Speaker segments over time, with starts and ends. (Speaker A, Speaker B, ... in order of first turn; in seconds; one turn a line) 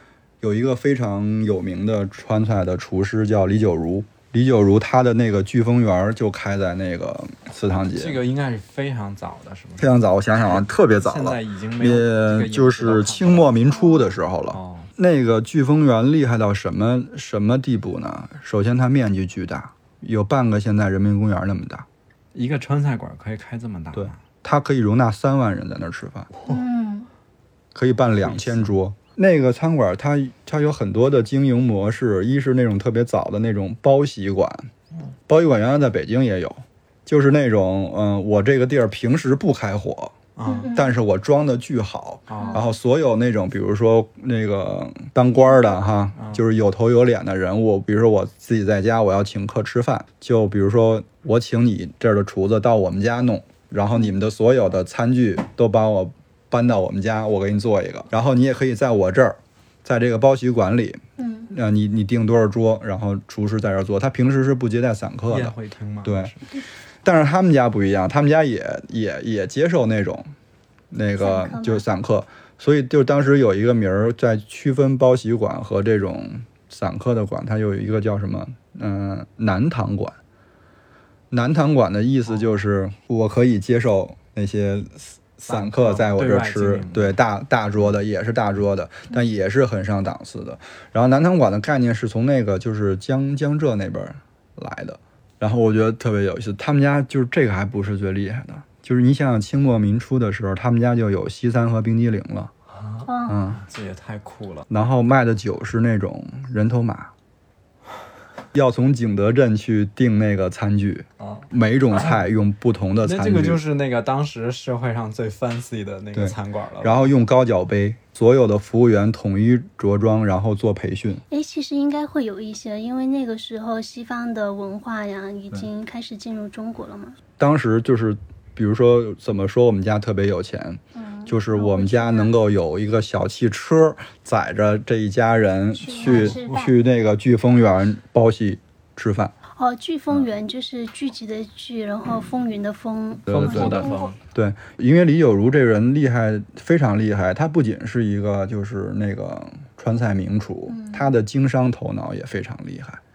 Speaker A: 0.4-8.2
Speaker B: 7.9-9.9
Speaker A: 9.8-21.9
Speaker B: 10.4-13.5
Speaker C: 13.7-14.2
Speaker B: 14.5-14.9
Speaker B: 22.3-24.2
Speaker A: 23.9-26.3
Speaker C: 26.4-27.1
Speaker A: 27.7-34.7
Speaker B: 28.2-28.7
Speaker A: 35.3-66.3
Speaker B: 40.4-40.7
Speaker C: 40.5-40.9
Speaker B: 42.3-42.6
Speaker C: 42.4-42.7
Speaker B: 46.1-46.4
Speaker C: 61.2-61.5
Speaker B: 65.3-66.5
Speaker A: 67.0-70.3
Speaker A: 70.9-80.2
Speaker C: 71.2-71.8
Speaker A: 81.3-102.5
Speaker B: 85.4-87.2
Speaker B: 102.8-104.7
Speaker C: 103.0-103.4
Speaker A: 103.3-103.6
Speaker A: 104.7-107.1
Speaker A: 108.5-113.6
Speaker B: 111.2-112.2
Speaker B: 113.0-117.1
Speaker A: 116.1-121.2
Speaker C: 121.3-127.2
Speaker A: 127.4-139.3
Speaker C: 130.9-132.3
Speaker C: 135.7-136.7
Speaker B: 136.0-136.7
Speaker C: 139.6-144.1
Speaker B: 143.3-144.2
Speaker A: 143.3-153.0
Speaker C: 150.7-151.1